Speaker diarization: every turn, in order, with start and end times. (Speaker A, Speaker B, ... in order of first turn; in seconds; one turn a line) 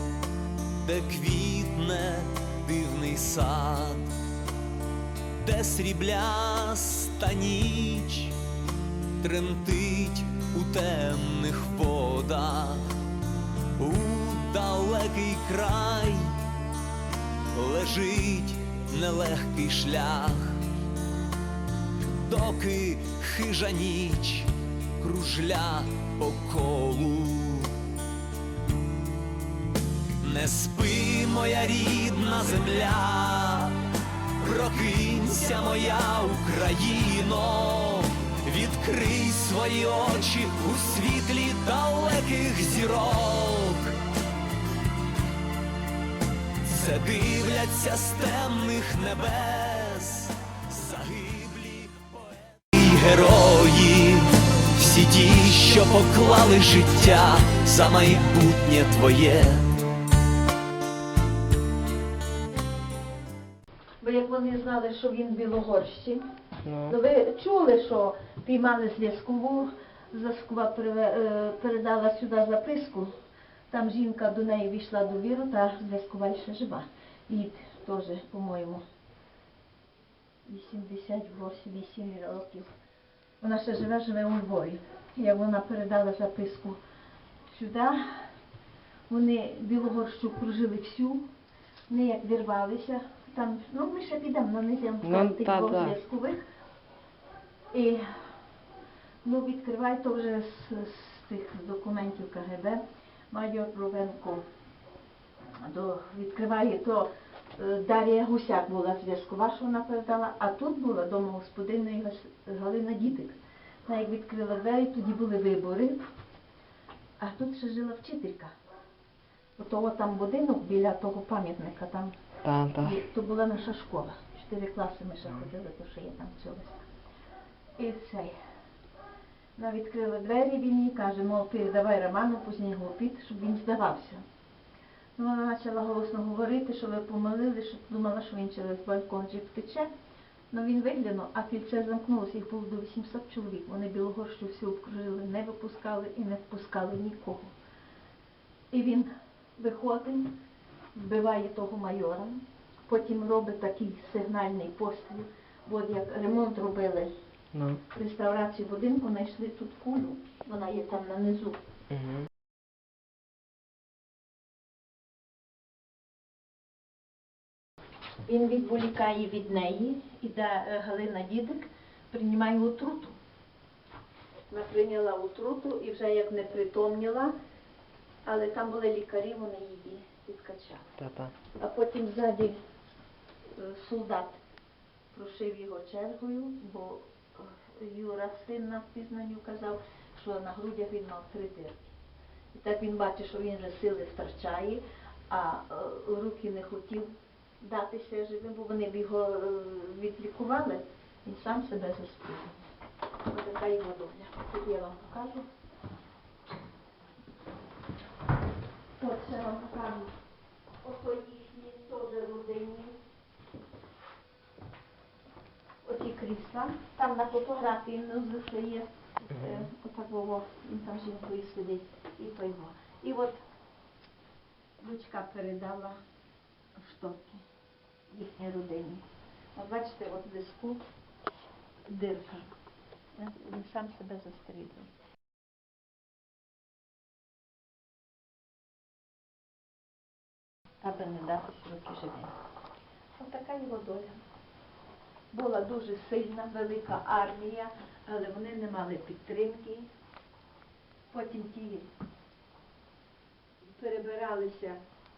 Speaker A: 0.8-4.1
Speaker A: 5.4-8.4
Speaker A: 9.2-13.0
Speaker A: 13.8-16.4
Speaker A: 17.5-20.6
Speaker A: 22.1-27.8
Speaker A: 30.2-33.8
Speaker A: 34.4-44.0
Speaker A: 46.6-59.7
Speaker B: 64.0-66.2
Speaker C: 66.7-66.9
Speaker B: 66.9-73.1
Speaker B: 73.7-78.8
Speaker B: 80.5-82.7
Speaker B: 83.4-86.8
Speaker B: 87.5-88.2
Speaker B: 89.1-91.2
Speaker B: 91.9-96.4
Speaker C: 95.0-96.0
Speaker B: 97.7-98.0
Speaker B: 99.2-104.4
Speaker B: 105.5-116.1
Speaker B: 117.2-118.5
Speaker B: 119.6-122.1
Speaker C: 122.4-123.0
Speaker B: 122.8-126.8
Speaker B: 127.8-128.4
Speaker B: 129.6-134.2
Speaker B: 135.2-139.9
Speaker B: 140.5-147.5
Speaker B: 148.7-150.3
Speaker B: 150.9-157.1
Speaker C: 157.5-157.8
Speaker B: 157.9-161.6
Speaker C: 161.9-162.3
Speaker B: 168.2-173.2
Speaker B: 174.5-177.3
Speaker B: 178.2-180.9
Speaker C: 181.0-181.3
Speaker B: 181.6-182.6
Speaker B: 183.5-184.4
Speaker B: 185.1-192.0
Speaker B: 192.5-197.1
Speaker B: 197.6-202.6
Speaker B: 203.2-205.5
Speaker B: 209.0-210.1
Speaker B: 210.8-213.0
Speaker B: 215.8-223.4
Speaker B: 224.8-226.0
Speaker B: 226.8-227.4
Speaker B: 228.1-230.8
Speaker B: 231.9-232.5
Speaker B: 233.2-234.9
Speaker B: 240.8-242.3
Speaker B: 243.2-244.2
Speaker B: 245.3-249.9
Speaker B: 251.1-251.9
Speaker B: 253.6-254.8